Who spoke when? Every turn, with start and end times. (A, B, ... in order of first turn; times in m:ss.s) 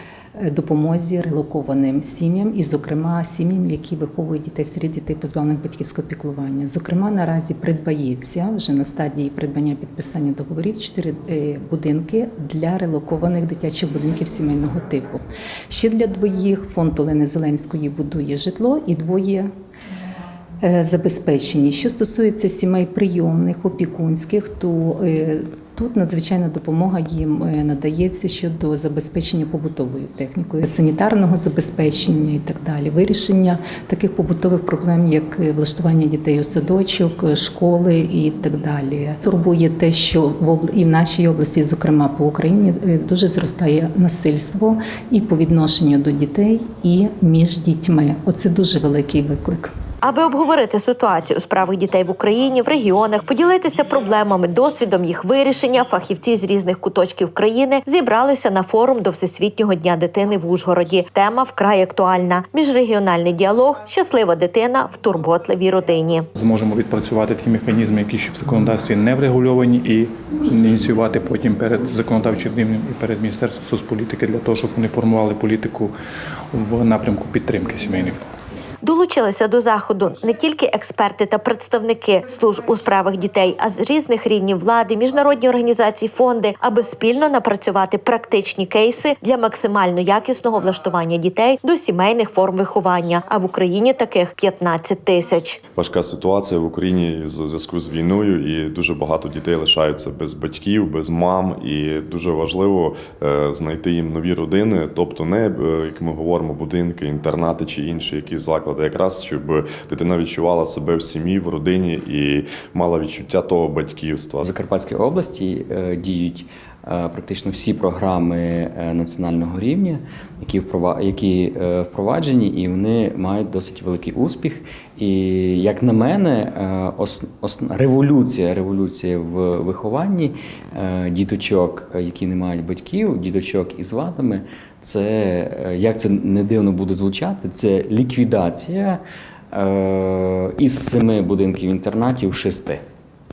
0:00.4-0:19.5 A
0:20.6-0:49.7 A
0:50.0-1:06.3 B
1:06.4-1:15.9 C
1:16.5-1:18.3 C
1:18.8-1:35.6 B
1:35.8-1:54.5 D
1:54.4-2:19.0 E
2:19.5-2:22.8 E